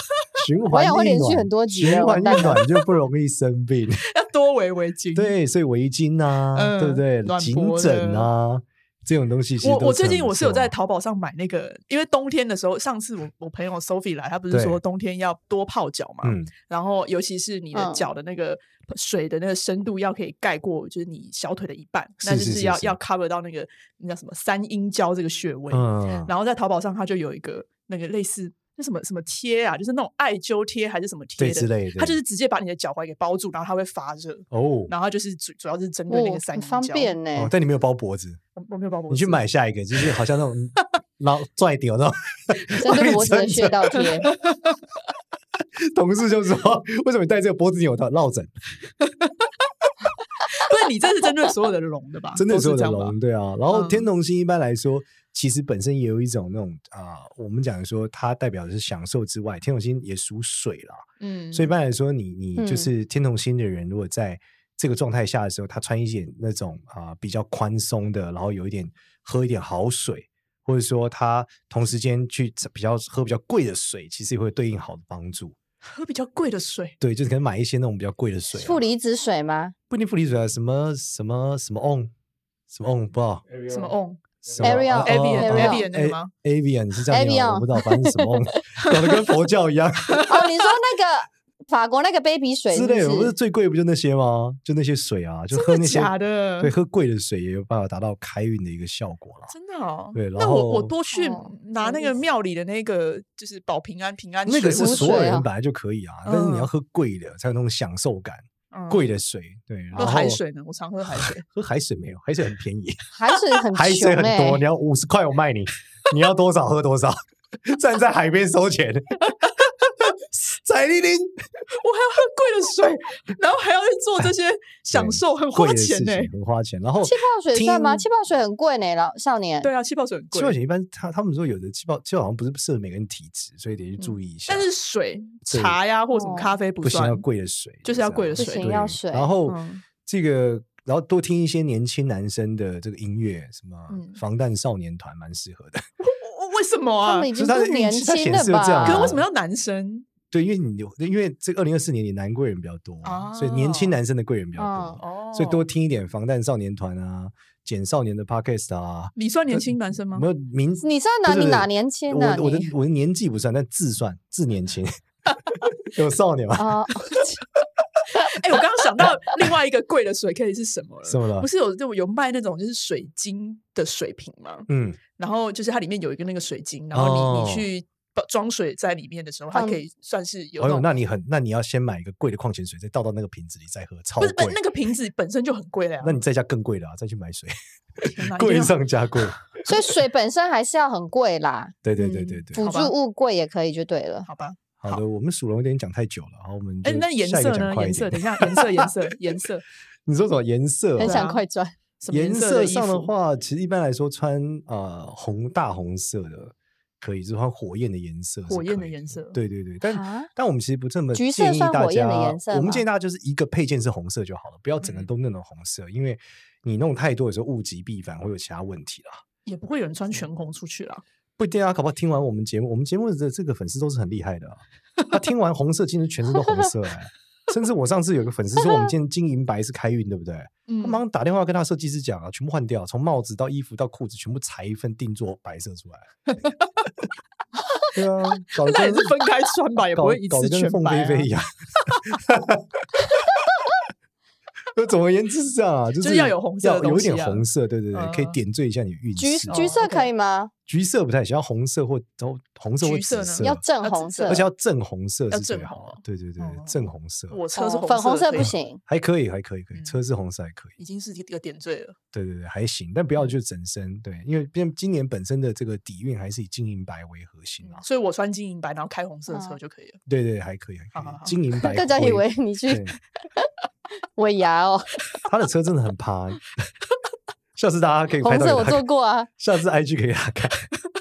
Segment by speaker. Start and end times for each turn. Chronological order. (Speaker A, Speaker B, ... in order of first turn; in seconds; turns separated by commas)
Speaker A: 0.3-4.0, Speaker B: 0.7-2.6, Speaker C: 2.3-2.6, Speaker C: 4.1-5.3, Speaker A: 5.2-10.7, Speaker C: 6.5-8.3, Speaker C: 9.6-37.1, Speaker A: 14.5-14.8, Speaker A: 16.2-16.5, Speaker B: 17.7-18.0, Speaker A: 22.2-23.0, Speaker A: 25.7-26.3, Speaker A: 31.4-32.2, Speaker A: 34.5-34.9, Speaker B: 36.1-37.5, Speaker A: 37.4-38.4, Speaker C: 38.5-39.4, Speaker A: 39.1-44.3, Speaker C: 42.7-43.1, Speaker B: 42.8-44.3, Speaker C: 44.0-44.8, Speaker A: 45.8-48.5, Speaker C: 49.0-49.5, Speaker C: 50.4-53.2, Speaker A: 52.4-75.6, Speaker C: 53.7-54.1, Speaker C: 61.2-61.7, Speaker B: 62.6-62.9, Speaker C: 75.8-77.0, Speaker A: 77.0-78.9, Speaker B: 78.5-79.8, Speaker A: 79.9-82.1, Speaker A: 82.7-83.5, Speaker C: 83.7-86.3, Speaker A: 84.6-90.4, Speaker B: 84.6-85.9, Speaker B: 87.1-89.3, Speaker C: 90.2-90.5, Speaker B: 90.3-93.3, Speaker A: 92.7-99.5, Speaker C: 95.5-96.7, Speaker C: 99.5-105.3, Speaker A: 100.1-100.9, Speaker B: 101.1-102.1, Speaker A: 104.5-110.4, Speaker B: 104.8-105.5, Speaker C: 106.2-106.7, Speaker C: 108.7-109.0, Speaker C: 109.9-111.4, Speaker A: 111.2-113.0, Speaker B: 113.1-114.6, Speaker A: 113.7-121.3, Speaker C: 121.7-126.3, Speaker A: 124.9-128.1, Speaker B: 127.0-129.7, Speaker C: 129.6-130.6, Speaker A: 130.3-134.7, Speaker C: 134.0-137.2, Speaker A: 135.5-135.8, Speaker B: 136.1-136.6, Speaker A: 136.8-145.8, Speaker C: 137.8-138.7, Speaker B: 138.4-139.3, Speaker C: 139.4-139.8, Speaker C: 143.9-144.2, Speaker C: 146.0-147.3, Speaker B: 147.0-149.2, Speaker A: 147.3-149.2, Speaker C: 148.8-150.1, Speaker A: 150.3-164.9, Speaker C: 153.0-154.0, Speaker B: 154.6-155.0, Speaker C: 155.0-155.7, Speaker C: 159.2-160.3, Speaker B: 160.8-162.7, Speaker A: 165.5-166.8, Speaker B: 166.6-167.4, Speaker C: 168.1-180.9, Speaker A: 171.1-171.5, Speaker A: 174.7-175.0, Speaker A: 176.9-177.7, Speaker B: 179.5-179.8, Speaker A: 180.6-184.6, Speaker C: 184.2-186.2, Speaker A: 186.0-189.4, Speaker C: 188.0-188.8, Speaker B: 189.7-194.3, Speaker A: 191.8-192.7, Speaker C: 192.6-192.9, Speaker C: 194.2-195.0, Speaker A: 194.8-198.9, Speaker C: 196.8-199.7, Speaker A: 200.1-201.2, Speaker B: 201.0-201.8, Speaker C: 201.0-201.4, Speaker C: 202.0-203.1, Speaker A: 202.1-219.2, Speaker C: 208.5-209.4, Speaker B: 209.9-210.3, Speaker B: 211.1-212.8, Speaker C: 214.8-215.1, Speaker C: 219.4-221.0, Speaker A: 221.4-236.1, Speaker B: 228.6-228.9, Speaker C: 230.7-231.0, Speaker C: 236.3-236.7, Speaker A: 237.9-239.2, Speaker C: 238.6-241.3, Speaker A: 239.9-242.8, Speaker A: 244.8-249.6, Speaker C: 246.0-248.4, Speaker B: 249.2-250.5, Speaker C: 249.5-250.1, Speaker A: 250.7-253.6, Speaker C: 252.8-254.5, Speaker B: 253.4-254.4, Speaker A: 254.2-257.4, Speaker C: 255.3-258.5, Speaker B: 257.6-258.8, Speaker A: 258.4-260.8, Speaker C: 260.8-261.9, Speaker A: 262.1-267.8, Speaker C: 267.6-270.0, Speaker B: 269.3-269.6, Speaker A: 270.1-272.9, Speaker C: 270.9-271.4, Speaker B: 271.6-272.9, Speaker B: 274.1-275.0, Speaker A: 275.2-276.4, Speaker A: 277.6-278.9, Speaker B: 278.2-279.3, Speaker A: 279.4-280.6